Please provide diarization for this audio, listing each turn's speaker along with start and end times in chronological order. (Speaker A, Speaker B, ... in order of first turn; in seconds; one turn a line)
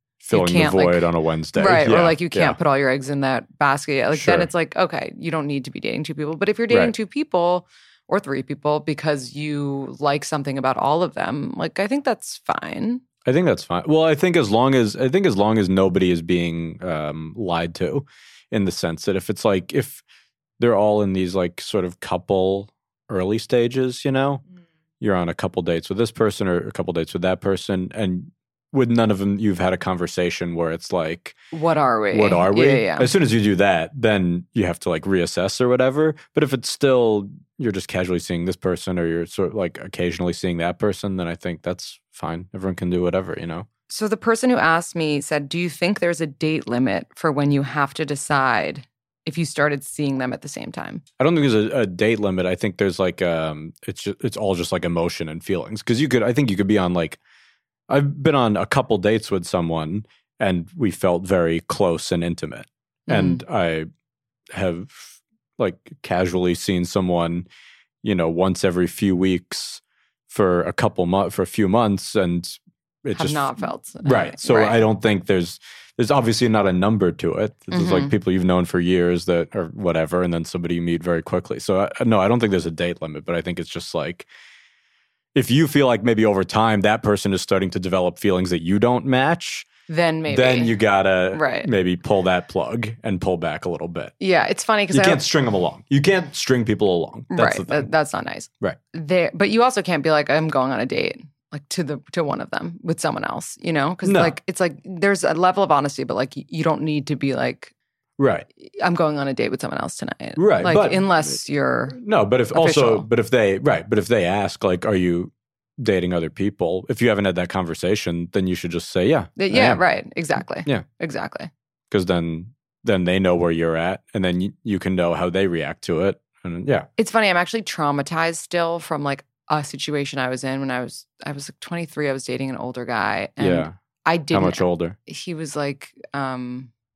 Speaker A: 0.2-2.6
Speaker B: 0.3-13.0
Speaker A: 4.1-4.5
Speaker A: 6.7-7.0
Speaker A: 13.2-20.0
Speaker A: 20.6-24.4
Speaker A: 25.0-31.4
Speaker B: 31.5-33.1
Speaker A: 32.1-43.7
Speaker B: 43.9-51.0
Speaker A: 51.2-57.2
Speaker A: 57.9-63.9
Speaker B: 63.1-63.4
Speaker A: 64.5-67.5
Speaker A: 68.0-84.3
Speaker B: 73.2-74.8
Speaker B: 77.7-78.1
Speaker A: 85.3-89.7
Speaker B: 89.9-90.8
Speaker A: 90.3-94.1
Speaker B: 91.3-91.7
Speaker B: 94.2-95.2
Speaker A: 94.9-97.9
Speaker B: 97.3-107.7
Speaker A: 104.0-104.4
Speaker A: 108.2-108.5
Speaker B: 108.6-112.0
Speaker A: 110.4-111.4
Speaker A: 111.9-119.8
Speaker B: 112.5-113.1
Speaker B: 119.4-121.5
Speaker A: 121.9-126.9
Speaker B: 127.0-136.7
Speaker A: 133.4-133.7
Speaker A: 134.3-135.0